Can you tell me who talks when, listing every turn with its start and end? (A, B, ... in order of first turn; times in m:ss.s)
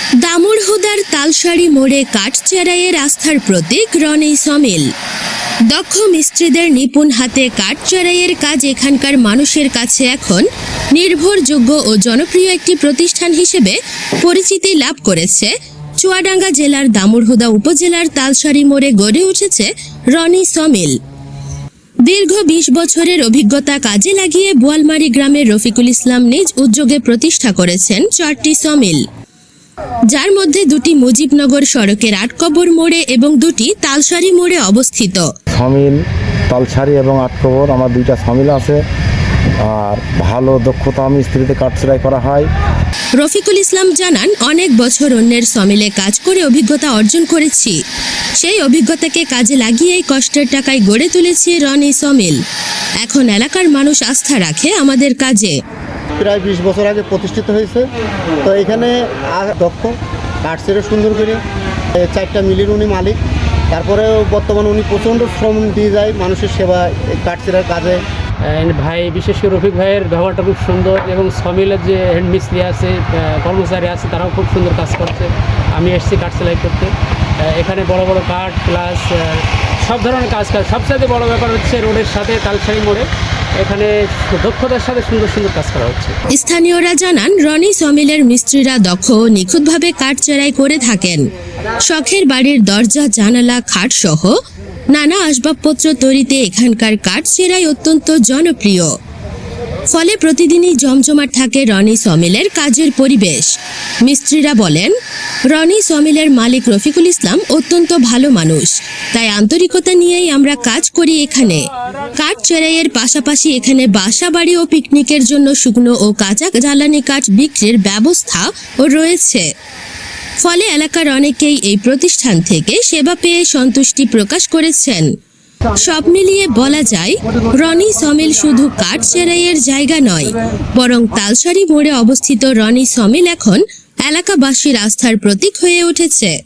0:00.2-0:04.8 A
0:05.7-0:20.9 A
0:22.0-0:29.0 A
0:30.1-0:35.2 A
0:35.5-0:36.0 B
0:36.5-0:38.8 B
0:39.6-0:42.5 B
0:43.2-0:47.8 A
0:48.4-0:52.4 A
0:53.0-0:55.6 A
0:56.2-0:57.9 C
0:58.4-1:01.4 C
1:01.9-1:03.2 C
1:03.7-1:08.0 C
1:08.4-1:23.1 D
1:23.6-1:26.1 D
1:26.3-1:31.2 A
1:31.8-1:34.3 A
1:34.9-1:38.9 A
1:39.9-1:44.9 A
1:45.5-1:51.7 A
1:52.2-1:59.4 A
2:00.4-2:05.1 A
2:05.8-2:16.3 A